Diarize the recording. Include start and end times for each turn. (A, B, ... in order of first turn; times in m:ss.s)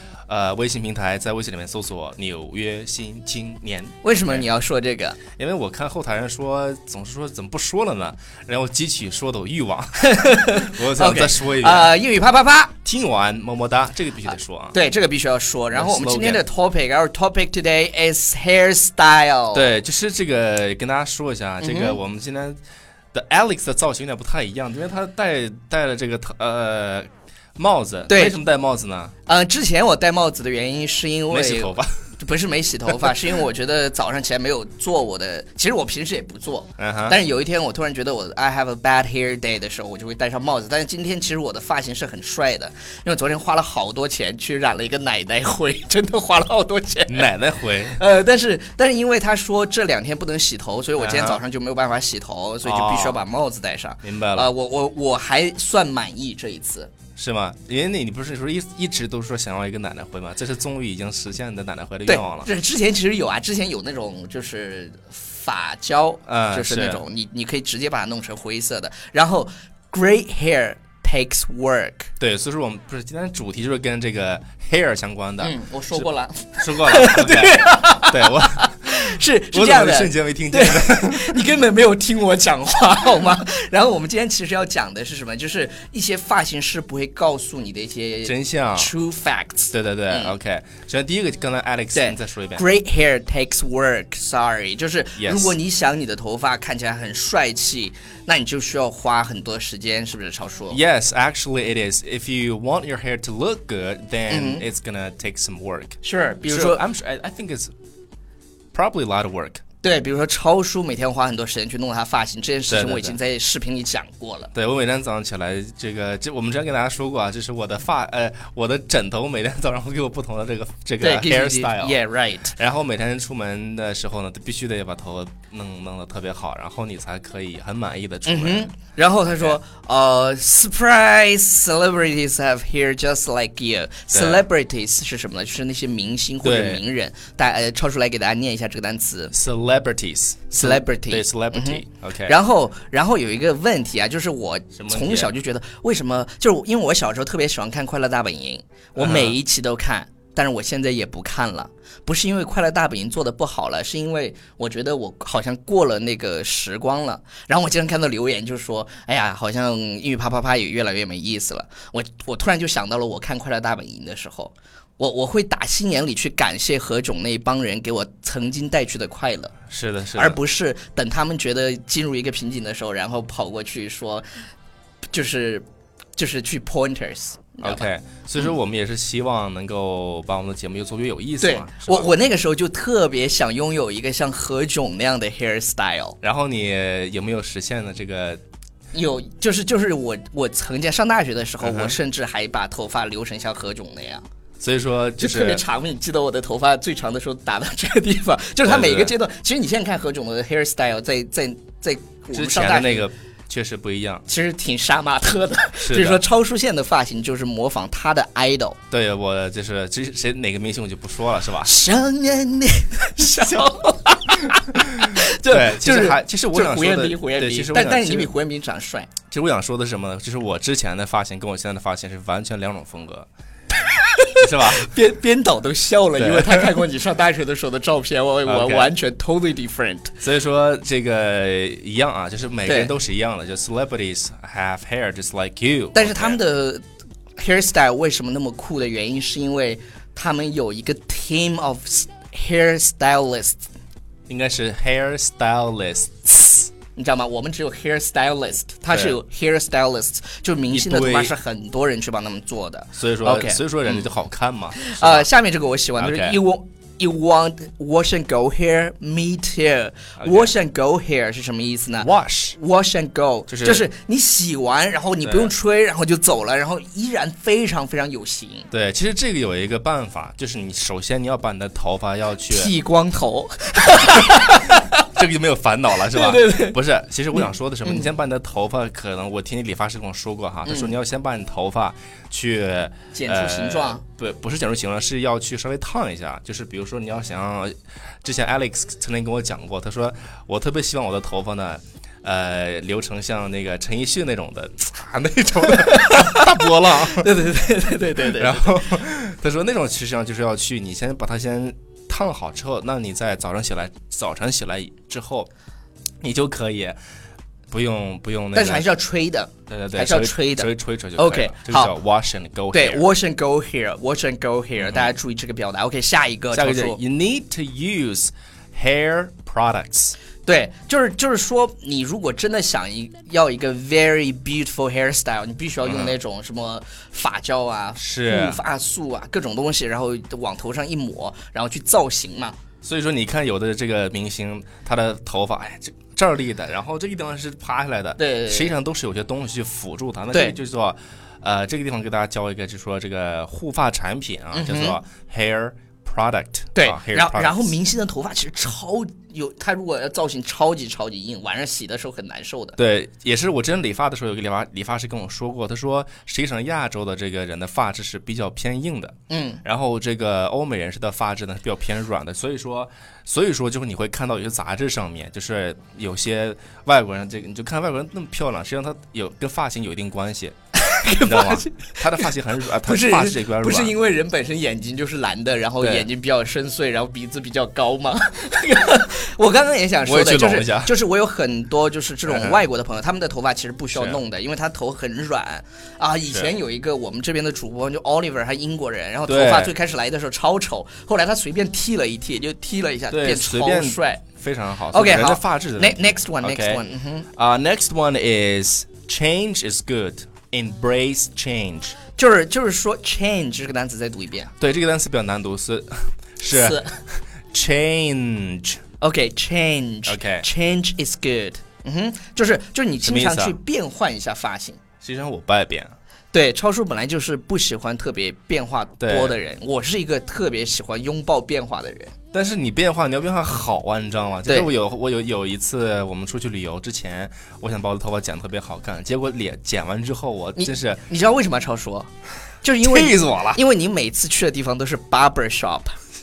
0:00.3-0:04.4 A
0:04.0-0:05.2 B
0:05.4-0:12.0 A
0:10.0-0:12.7 B
0:12.8-0:14.8 A
0:14.7-0:19.7 B
0:15.7-0:16.4 A
0:19.5-0:22.6 A
0:21.6-0:22.0 B
0:23.1-0:29.1 A
0:28.1-0:28.4 B
0:29.2-0:47.3 B
0:31.3-0:31.9 A
0:32.9-0:33.1 A
0:36.8-0:37.2 A
0:47.1-0:48.0 A
0:47.9-0:56.9 B
0:51.0-0:51.4 A
0:52.6-0:53.2 A
0:54.0-0:54.5 A
0:57.2-1:02.5 A
1:02.1-1:12.1 B
1:06.2-1:07.0 A
1:12.2-1:16.0 A
1:15.4-1:30.3 B
1:16.6-1:21.4 A
1:28.2-1:28.9 A
1:29.7-1:32.6 A
1:31.9-1:40.8 B
1:35.2-1:35.6 A
1:40.7-1:47.7 A
1:44.3-1:44.6 B
1:46.0-1:46.8 B
1:48.7-1:49.6 A
1:49.8-1:54.5 B
1:52.7-1:53.2 A
1:54.5-2:02.0 A
2:01.0-2:02.5 B
2:02.5-2:08.7 A
2:08.2-2:19.3 B
2:09.3-2:09.6 A
2:14.1-2:14.4 A
2:16.4-2:16.8 A
2:19.3-2:22.3 A
2:20.5-2:49.5 B
2:24.8-2:25.3 A
2:29.0-2:29.4 A
2:49.7-2:50.4 A
2:50.2-2:54.2 B
2:55.1-2:58.5 B
2:57.6-3:02.1 A
3:01.4-3:06.2 B
3:06.2-3:08.4 A
3:08.9-3:14.2 B
3:11.6-3:12.0 A
3:14.6-3:15.6 A
3:15.2-3:23.1 B
3:18.6-3:19.1 A
3:22.3-3:24.2 A
3:24.3-3:28.8 B
3:25.8-3:26.2 A
3:28.9-3:31.7 A
3:31.6-3:39.1 B
3:34.9-3:38.3 A
3:39.3-3:43.3 A
3:43.9-3:50.1 B
3:44.4-3:44.9 A
3:46.2-3:46.8 A
3:48.4-3:48.9 A
3:50.2-3:56.4 A
3:52.6-3:52.9 B
3:55.9-3:56.8 B
3:57.4-4:03.7 B
4:04.3-4:06.7 A
4:06.9-4:14.1 B
4:08.9-4:09.2 A
4:10.7-4:11.3 A
4:12.9-4:15.3 A
4:14.7-4:28.7 B
4:16.0-4:16.4 A
4:20.2-4:20.5 A
4:22.0-4:22.6 A
4:23.5-4:23.8 A
4:25.2-4:25.5 A
4:28.7-4:32.7 A
4:32.5-4:35.0 B
4:33.9-4:57.3 A
4:36.1-4:36.8 B
4:37.3-4:38.1 B
4:40.6-4:40.9 B
4:43.1-4:44.0 B
4:55.7-4:58.8 B
4:58.3-5:05.5 A
5:06.2-5:07.0 A
5:07.7-5:08.9 A
5:08.5-5:11.9 B
5:09.7-5:13.0 A
5:12.7-5:17.0 B
5:14.8-5:15.2 A
5:16.5-5:20.1 A
5:20.4-5:32.6 B
5:25.8-5:26.2 A
5:28.0-5:28.6 A
5:32.8-5:47.7 A
5:38.2-5:38.7 B
5:44.5-5:45.0 B
5:46.7-5:52.8 B
5:52.8-6:10.5 A
5:59.3-5:59.6 B
6:10.7-6:12.3 B
6:11.2-6:13.9 A
6:12.8-6:34.2 B
6:15.8-6:16.1 A
6:20.0-6:20.9 A
6:22.3-6:22.6 A
6:23.9-6:24.2 A
6:29.3-6:29.7 A
6:33.1-6:36.8 A
6:34.9-6:37.3 B
6:37.3-6:42.0 A
6:42.2-6:44.5 B
6:44.6-6:48.8 A
6:46.5-6:46.9 B
6:49.0-6:54.8 B
6:50.0-6:50.4 A
6:53.0-6:53.6 A
6:55.0-6:55.9 A
6:56.3-7:02.1 B
6:59.0-6:59.4 A
7:02.3-7:11.0 A
7:10.6-7:12.1 B
7:12.6-7:16.0 B
7:12.8-7:13.6 A